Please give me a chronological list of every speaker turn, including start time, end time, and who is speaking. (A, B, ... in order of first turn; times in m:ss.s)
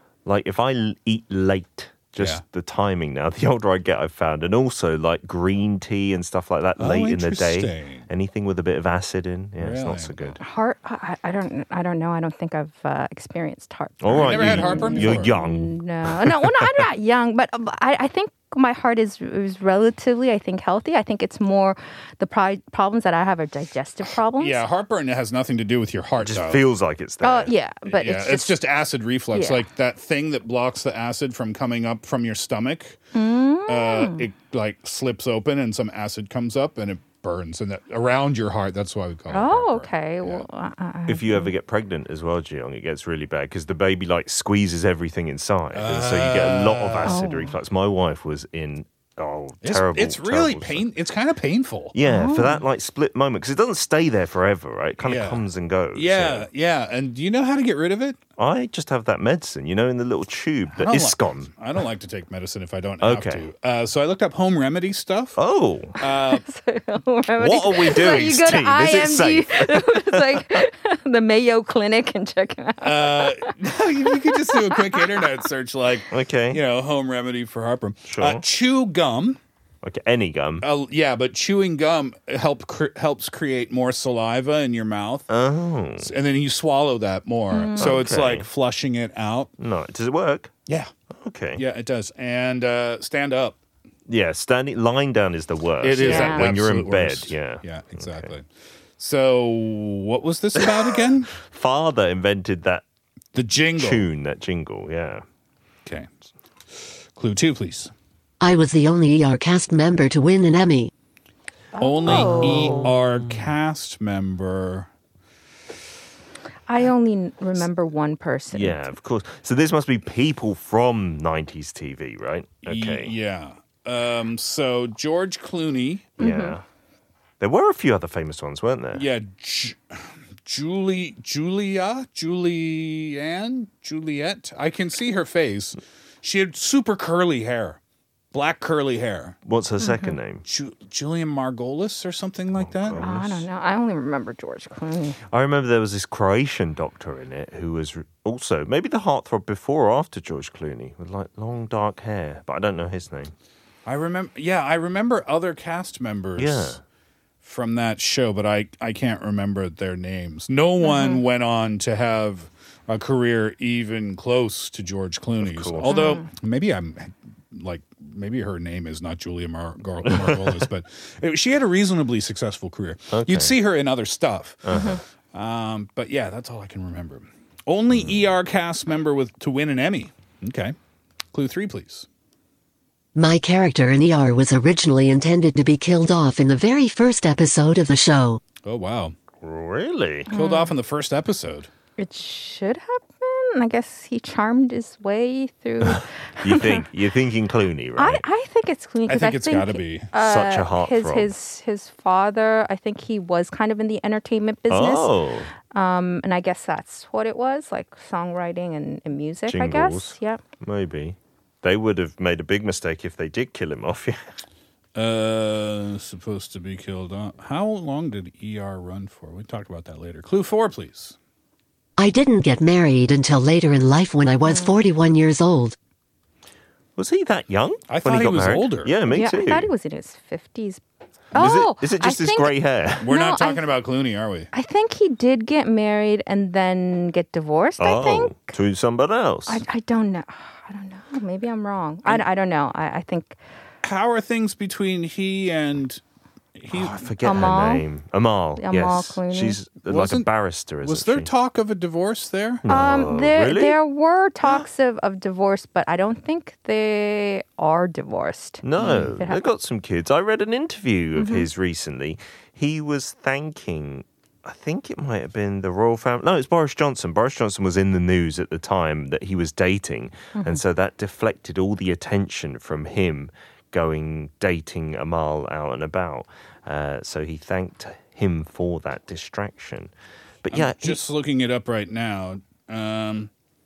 0:00.2-0:10.4 A
0:02.2-0:02.4 B
0:06.8-0:08.0 B
0:09.6-0:10.3 B
0:10.4-0:24.6 C
0:14.0-0:16.8 A
0:14.1-0:15.3 B
0:24.4-0:26.6 B
0:26.2-0:27.5 A
0:27.2-0:28.6 C
0:27.9-0:33.0 B
0:29.3-0:29.6 C
0:33.1-0:34.2 C
0:33.7-0:40.4 B
0:39.3-0:41.5 C
0:41.1-0:50.8 A
0:45.7-0:47.2 B
0:47.1-0:47.5 C
0:49.6-0:51.9 B
0:51.9-0:56.5 A
0:52.0-0:52.6 C
0:55.0-0:55.4 B
0:55.9-0:58.2 B
0:58.4-1:01.5 A
1:00.7-1:05.4 B
1:03.0-1:03.5 A
1:05.4-1:06.0 A
1:06.0-1:06.4 B
1:06.3-1:13.5 C
1:07.4-1:10.6 A
1:12.8-1:19.4 B
1:14.1-1:15.3 C
1:16.1-1:16.6 A
1:18.1-1:18.4 A
1:19.8-1:20.6 A
1:20.6-1:25.3 B
1:25.3-1:26.1 A
1:26.0-1:29.5 B
1:27.5-1:27.9 C
1:27.8-1:28.5 A
1:29.6-1:30.5 A
1:31.1-1:31.6 A
1:31.6-1:33.6 B
1:34.1-1:38.3 A
1:35.8-1:38.4 B
1:36.0-1:36.5 C
1:39.0-1:41.3 B
1:41.4-1:42.8 A
1:43.3-1:44.0 B
1:43.8-1:45.2 A
1:46.8-1:47.9 B
1:48.4-1:50.9 D
1:51.7-1:52.9 C
1:51.8-1:54.9 B
1:52.1-1:53.0 A
1:56.7-1:58.9 C
1:58.5-2:03.1 A
2:02.6-2:06.1 B
2:06.2-2:06.6 C
2:06.2-2:06.6 A
2:07.4-2:09.1 A
2:08.9-2:09.8 B
2:10.4-2:17.8 B
2:18.3-2:19.4 B
2:19.4-2:20.4 A
2:19.8-2:20.2 C
2:20.4-2:23.4 B
2:22.5-2:23.2 A
2:23.0-2:25.2 C
2:25.3-2:33.3 A
2:33.8-2:36.8 B
2:36.4-2:36.8 A
2:37.4-2:54.7 B
2:40.8-2:41.2 C
2:45.4-2:46.2 A
2:45.8-2:46.2 C
2:50.0-2:50.6 A
2:53.1-2:53.6 A
2:54.6-2:55.0 A
2:54.7-2:55.0 C
2:55.3-3:00.7 B
2:57.9-2:58.2 A
3:01.3-3:02.0 B
3:03.1-3:08.4 D
3:08.6-3:09.1 B
3:09.4-3:10.3 A
3:10.3-3:10.7 C
3:10.3-3:11.7 B
3:12.0-3:16.9 C
3:15.8-3:18.2 A
3:18.0-3:25.1 C
3:19.1-3:20.1 B
3:20.1-3:21.3 A
3:24.7-3:25.5 A
3:25.7-3:30.4 C
3:29.5-3:34.2 A
3:34.9-3:41.2 B
3:42.0-3:45.8 D
3:44.4-3:44.8 C
3:47.0-3:49.7 A
3:47.9-3:48.9 B
3:49.1-3:50.8 C
3:51.3-3:53.6 C
3:51.3-3:53.1 A
3:53.0-3:54.5 B
3:54.5-3:58.5 C
3:57.8-3:59.6 A
3:59.5-4:03.4 C
4:03.8-4:06.0 B
4:06.6-4:07.0 B
4:06.7-4:11.3 A
4:07.2-4:07.8 C
4:08.6-4:09.6 C
4:09.8-4:10.3 B
4:10.8-4:12.6 B
4:12.6-4:13.8 A
4:12.7-4:19.4 C
4:18.6-4:39.9 A
4:18.8-4:19.1 B
4:21.2-4:21.5 C
4:30.3-4:30.6 C
4:40.4-4:41.0 A
4:40.5-4:43.3 B